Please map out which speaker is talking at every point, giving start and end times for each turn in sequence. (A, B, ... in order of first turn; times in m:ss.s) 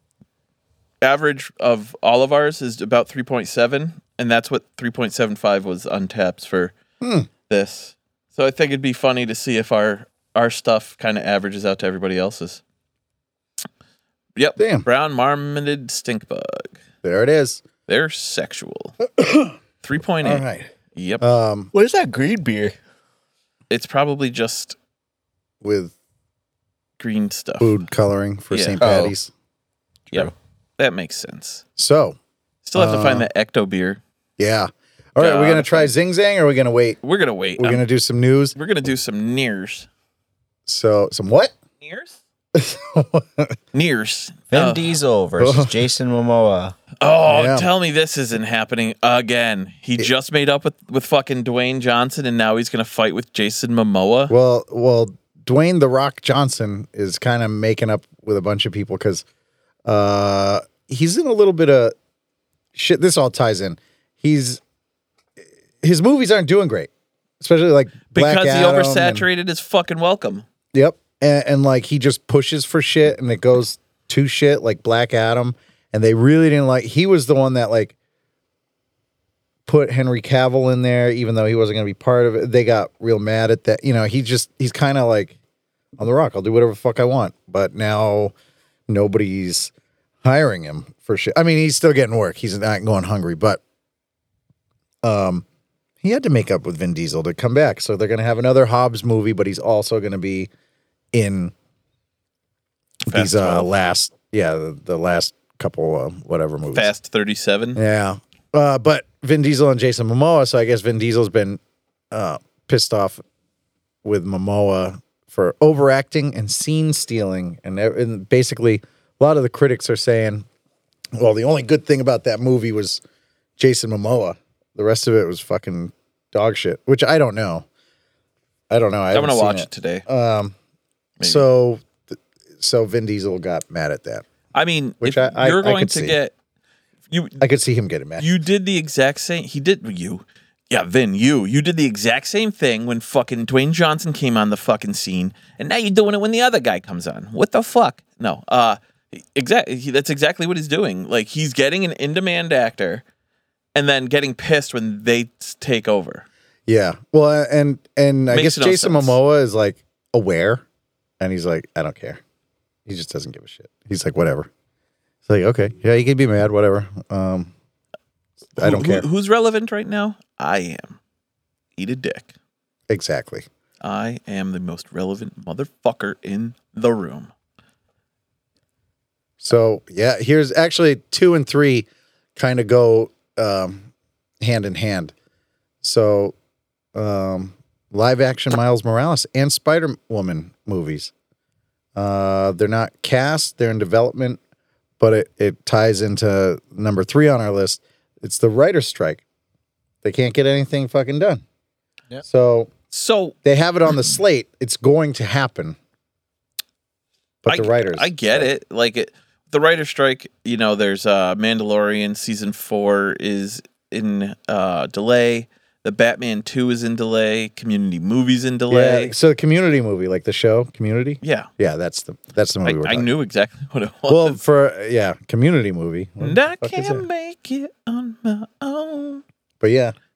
0:01.0-0:06.7 A
0:07.0-0:07.3 B
0:07.5-0:12.6 A
0:14.4-0:16.8 A
0:14.6-0:14.8 B
0:17.0-0:17.6 B
0:17.9-0:19.0 A
0:19.1-0:19.6 B
0:19.8-0:21.2 A
0:20.2-0:21.7 B
0:21.7-0:22.7 C
0:23.7-0:24.8 A
0:25.6-0:25.9 B
0:27.0-0:27.8 A
0:27.6-0:29.3 B
0:28.5-0:28.8 A
0:28.8-0:29.1 C
0:30.1-0:31.6 A
0:31.8-0:32.2 B
0:32.6-0:34.0 A
0:32.8-0:33.3 B
0:34.4-0:37.0 B
0:35.2-0:35.9 A
0:37.0-0:37.8 A
0:37.6-0:38.5 B
0:38.5-0:39.9 A
0:40.7-0:41.5 B
0:41.8-0:42.2 A
0:42.5-0:43.6 B
0:43.7-0:44.9 A
0:44.5-0:46.8 C
0:45.4-0:45.7 B
0:47.0-0:54.3 A
0:47.3-0:47.7 B
0:54.3-0:59.2 B
0:59.8-1:01.9 B
1:02.7-1:04.6 B
1:05.8-1:09.2 B
1:08.1-1:10.4 A
1:10.7-1:17.9 B
1:19.6-1:25.4 B
1:26.0-1:28.3 B
1:28.9-1:29.7 B
1:30.2-1:33.6 B
1:35.0-1:35.4 B
1:36.0-1:40.5 B
1:41.1-1:41.5 B
1:43.1-1:43.7 A
1:43.1-1:46.9 B
1:46.7-1:47.8 A
1:47.8-1:51.6 B
1:52.1-1:53.2 B
1:54.0-2:00.4 B
2:01.1-2:03.0 B
2:03.6-2:07.6 B
2:08.7-2:10.5 B
2:09.1-2:10.0 A
2:11.2-2:11.5 A
2:11.2-2:14.2 B
2:14.5-2:16.3 A
2:15.0-2:16.2 B
2:17.1-2:17.4 A
2:17.4-2:18.3 B
2:18.2-2:33.0 A
2:33.7-2:36.2 A
2:36.7-2:40.6 B
2:38.3-2:39.2 A
2:41.2-2:42.2 B
2:42.8-2:44.5 B
2:45.2-2:47.5 B
2:48.6-2:51.0 A
2:48.6-2:49.0 B
2:51.8-2:52.3 A
2:52.9-2:53.5 B
2:53.8-2:57.3 A
2:59.4-3:03.9 B
3:04.4-3:05.1 B
3:05.8-3:06.3 B
3:06.9-3:11.1 B
3:12.0-3:14.4 B
3:15.0-3:19.2 B
3:20.0-3:21.4 B
3:22.2-3:22.7 B
3:22.9-3:23.4 A
3:23.4-3:25.8 B
3:27.4-3:28.5 B
3:27.5-3:39.1 A
3:38.7-3:43.1 B
3:41.2-3:41.5 A
3:42.6-3:44.4 A
3:44.1-3:47.0 B
3:46.2-3:49.2 A
3:49.6-3:49.9 B